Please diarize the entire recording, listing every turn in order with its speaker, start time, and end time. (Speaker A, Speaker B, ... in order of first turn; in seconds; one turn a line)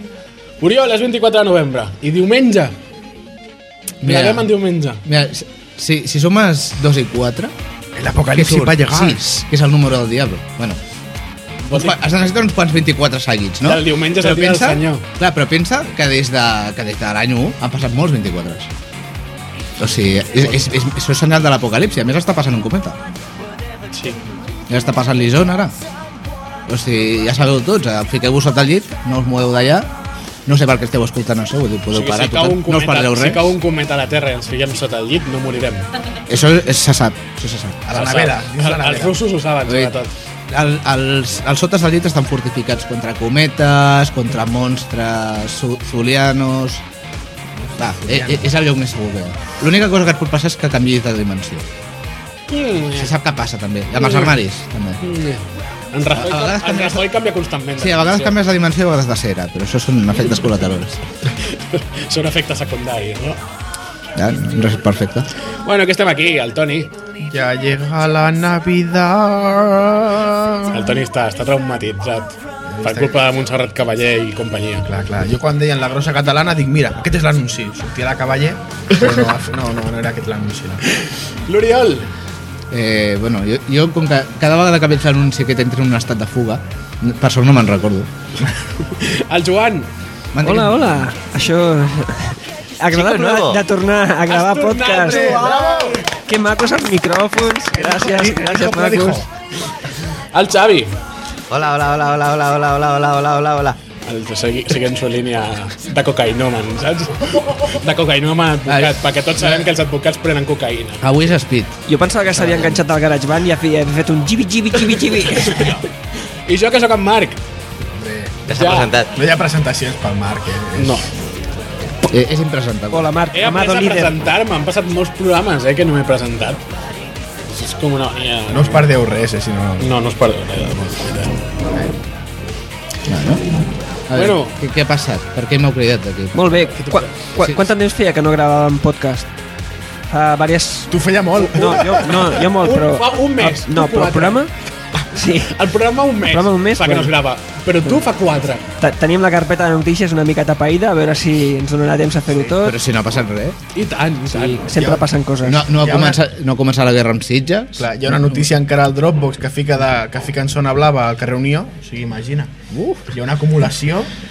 Speaker A: 0.6-2.7
Speaker B: 4.0-4.5
Speaker A: 4.0-5.0
Speaker B: 5.0-7.5
Speaker C: 7.9-9.2
Speaker B: 8.3-10.8
Speaker A: 11.7-12.2
Speaker B: 11.7-18.7
Speaker A: 13.6-15.0
Speaker B: 19.8-23.0
Speaker A: 23.9-24.2
Speaker B: 24.7-25.7
Speaker B: 26.7-29.9
Speaker B: 30.4-33.6
Speaker A: 31.9-35.9
Speaker B: 36.3-37.8
Speaker C: 37.9-39.2
Speaker A: 37.9-40.1
Speaker B: 39.7-39.9
Speaker B: 40.5-46.8
Speaker B: 47.8-51.6
Speaker C: 48.1-48.4
Speaker A: 52.5-53.1
Speaker B: 53.0-55.0
Speaker A: 54.0-54.4
Speaker A: 55.0-58.4
Speaker B: 56.1-57.0
Speaker B: 57.8-61.0
Speaker A: 61.4-63.4
Speaker B: 64.2-65.3
Speaker A: 65.6-66.9
Speaker C: 67.3-70.9
Speaker A: 70.7-74.9
Speaker C: 72.7-73.2
Speaker C: 74.8-80.8
Speaker A: 81.5-82.1
Speaker B: 82.7-88.1
Speaker A: 88.9-89.9
Speaker B: 90.3-91.0
Speaker D: 90.4-95.3
Speaker E: 92.9-93.6
Speaker A: 94.3-96.0
Speaker C: 95.0-96.0
Speaker D: 96.2-99.2
Speaker C: 97.7-99.3
Speaker A: 100.3-100.9
Speaker E: 101.5-103.8
Speaker A: 104.0-111.1
Speaker B: 108.7-109.5
Speaker B: 111.0-111.8
Speaker D: 111.9-115.8
Speaker A: 115.5-115.8
Speaker A: 116.5-117.4
Speaker C: 118.0-118.4
Speaker E: 118.5-119.1
Speaker A: 118.5-118.9
Speaker C: 119.2-121.0
Speaker A: 120.8-121.1
Speaker B: 122.1-123.1
Speaker D: 122.9-124.1
Speaker A: 123.3-126.6
Speaker A: 127.5-128.9
Speaker C: 128.5-129.9
Speaker A: 129.8-131.4
Speaker B: 133.1-133.4
Speaker B: 134.1-136.3
Speaker A: 134.1-134.6
Speaker D: 136.3-139.3
Speaker A: 136.7-137.1
Speaker D: 140.1-144.5
Speaker C: 140.9-142.3
Speaker A: 141.6-144.5
Speaker D: 145.1-145.5
Speaker A: 145.4-148.6
Speaker D: 146.2-147.1
Speaker D: 148.8-152.8
Speaker B: 152.6-153.6
Speaker A: 153.7-154.7
Speaker D: 154.3-155.7
Speaker C: 154.7-155.1
Speaker B: 155.4-157.9
Speaker C: 155.7-156.2
Speaker C: 157.8-162.5
Speaker B: 162.7-163.0
Speaker C: 163.1-164.1